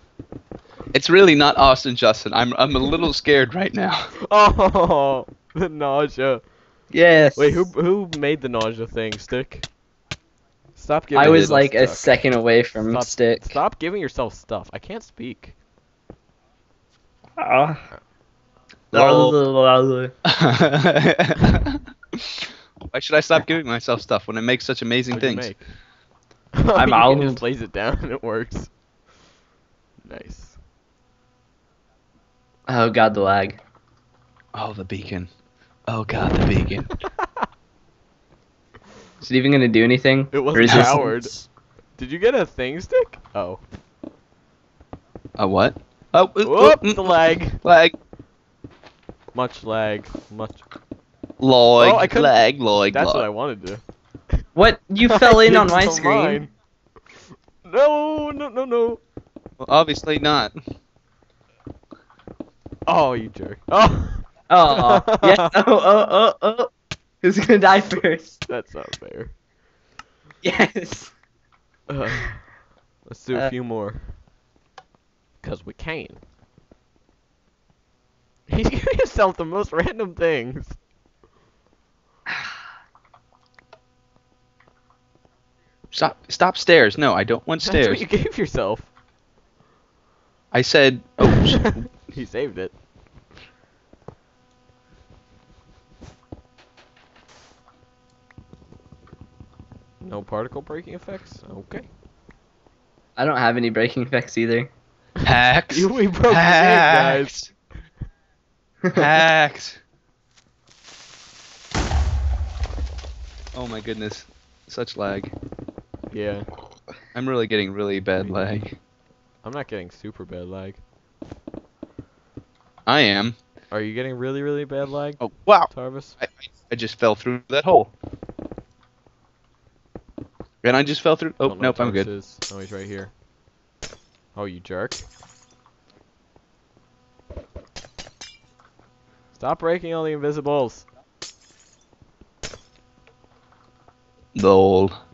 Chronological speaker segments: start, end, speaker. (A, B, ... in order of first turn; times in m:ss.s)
0:00.9-0:04.1 A
0:04.3-0:06.4 B
0:06.9-0:07.7 C
0:07.4-0:09.6 B
0:10.8-0:12.2 B
0:11.1-0:13.6 C
0:11.2-0:11.5 A
0:12.8-0:15.5 B
0:17.4-0:17.9 C
0:18.9-0:19.4 A
0:18.9-0:20.1 C
0:20.2-0:25.5 A
0:25.1-0:25.6 B
0:26.6-0:28.7 B
0:26.8-0:27.4 C
0:30.0-0:30.6 B
0:32.7-0:33.6 C
0:34.5-0:35.3 A
0:35.9-0:36.9 A
0:39.2-0:41.5 C
0:40.3-0:41.3 B
0:40.6-0:40.9 A
0:42.0-0:43.6 B
0:45.4-0:47.9 A
0:46.4-0:47.6 B
0:49.3-0:50.6 B
0:51.4-0:53.3 A
0:51.8-0:53.8 B
0:54.5-0:56.4 C
0:55.1-0:56.5 B
0:57.6-0:59.0 B
0:59.6-1:00.5 A
1:02.9-1:05.5 B
1:04.5-1:06.7 C
1:07.2-1:08.4 C
1:08.5-1:09.3 B
1:10.4-1:11.1 C
1:11.9-1:12.4 B
1:13.0-1:14.1 B
1:15.4-1:16.2 B
1:18.5-1:20.8 B
1:25.9-1:28.0 A
1:27.6-1:28.9 B
1:30.5-1:31.8 A
1:31.2-1:32.7 B
1:40.0-1:41.9 B
1:43.2-1:44.7 C
1:45.2-1:47.5 A
1:45.6-1:47.3 B
1:48.9-1:49.8 A
1:53.5-1:55.3 A
1:56.1-1:56.5 B
1:57.1-1:58.8 A
1:59.4-2:00.8 B
2:02.9-2:03.4 A
2:03.7-2:06.2 B
2:05.2-2:07.9 A
2:10.6-2:12.1 A
2:11.4-2:13.1 B
2:14.4-2:15.1 B
2:19.3-2:20.9 B
2:24.4-2:24.9 A